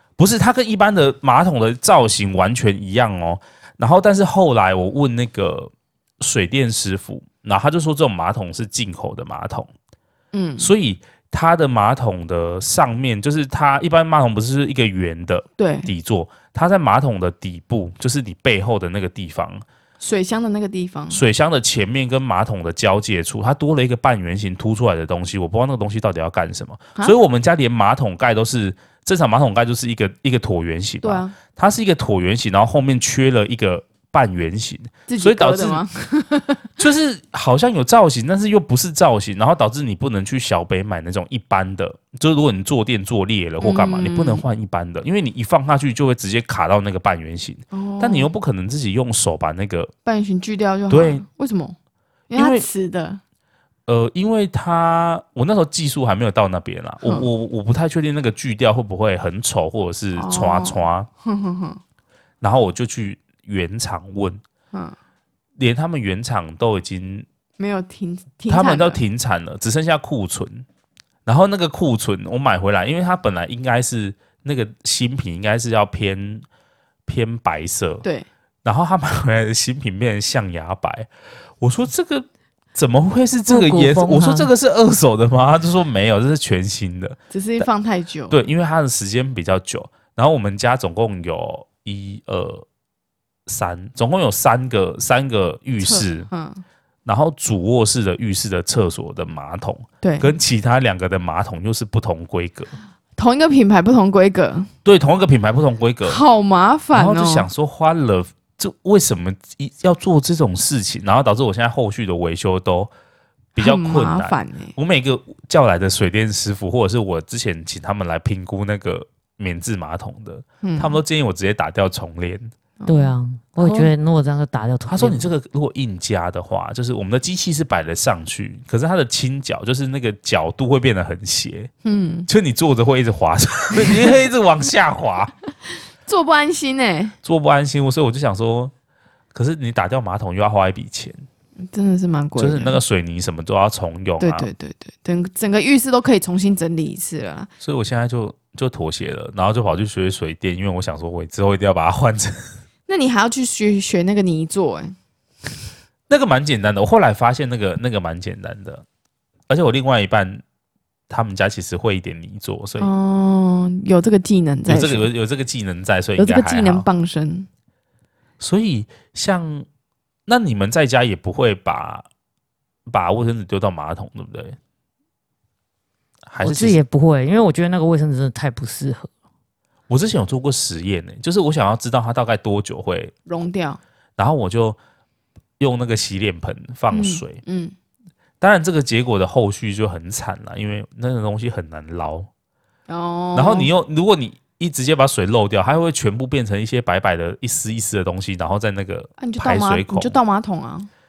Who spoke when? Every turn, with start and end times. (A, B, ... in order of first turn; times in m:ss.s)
0:00.2-0:09.7 A
0:10.3-0:10.7 B
0:10.6-0:19.6 A
0:15.6-0:15.9 B
0:20.0-0:21.2 B
0:21.1-0:35.8 A
0:31.0-0:31.3 B
0:35.1-0:36.6 B
0:36.8-0:49.9 A
0:43.6-0:44.4 B
0:47.7-0:48.3 B
0:50.0-0:51.8 B
0:50.9-0:51.2 A
0:52.3-0:53.2 B
0:52.3-0:52.7 A
0:53.9-1:01.1 A
1:00.1-1:01.8 B
1:02.4-1:04.4 A
1:05.6-1:07.2 A
1:07.6-1:09.0 B
1:08.5-1:10.6 A
1:11.2-1:16.4 A
1:17.1-1:18.0 A
1:18.6-1:21.1 A
1:21.6-1:27.6 A
1:23.5-1:24.5 C
1:27.3-1:28.4 B
1:28.3-1:32.6 A
1:33.5-1:36.3 A
1:35.8-1:36.6 B
1:37.0-1:42.7 A
1:40.0-1:40.3 B
1:43.2-1:44.7 B
1:44.8-1:46.2 A
1:46.0-1:47.5 B
1:46.9-1:52.9 A
1:53.6-1:54.7 B
1:53.6-2:02.5 A
2:00.6-2:01.0 B
2:02.8-2:03.9 B
2:02.9-2:05.3 C
2:04.9-2:11.7 A
2:11.8-2:12.3 B
2:12.3-2:15.3 A
2:13.8-2:14.1 B
2:16.0-2:17.2 B
2:17.2-2:18.7 A
2:19.3-2:21.2 A
2:21.6-2:22.8 B
2:22.4-2:24.5 A
2:24.2-2:27.5 B
2:27.6-2:32.4 A
2:32.9-2:34.9 B
2:36.1-2:38.8 A
2:39.5-2:40.4 A
2:41.1-2:42.9 A
2:42.8-2:45.1 B
2:44.7-2:46.8 A
2:46.2-2:47.5 B
2:48.4-2:49.6 A
2:50.3-2:52.0 A
2:52.9-2:54.6 A
2:56.3-2:56.8 A
2:56.4-2:59.1 C
2:59.9-3:03.1 A
3:03.3-3:03.8 B
3:04.2-3:04.8 A
3:05.6-3:07.4 A
3:06.9-3:07.7 B
3:08.4-3:12.3 A
3:12.9-3:13.7 B
3:13.3-3:20.2 A
3:19.2-3:20.9 B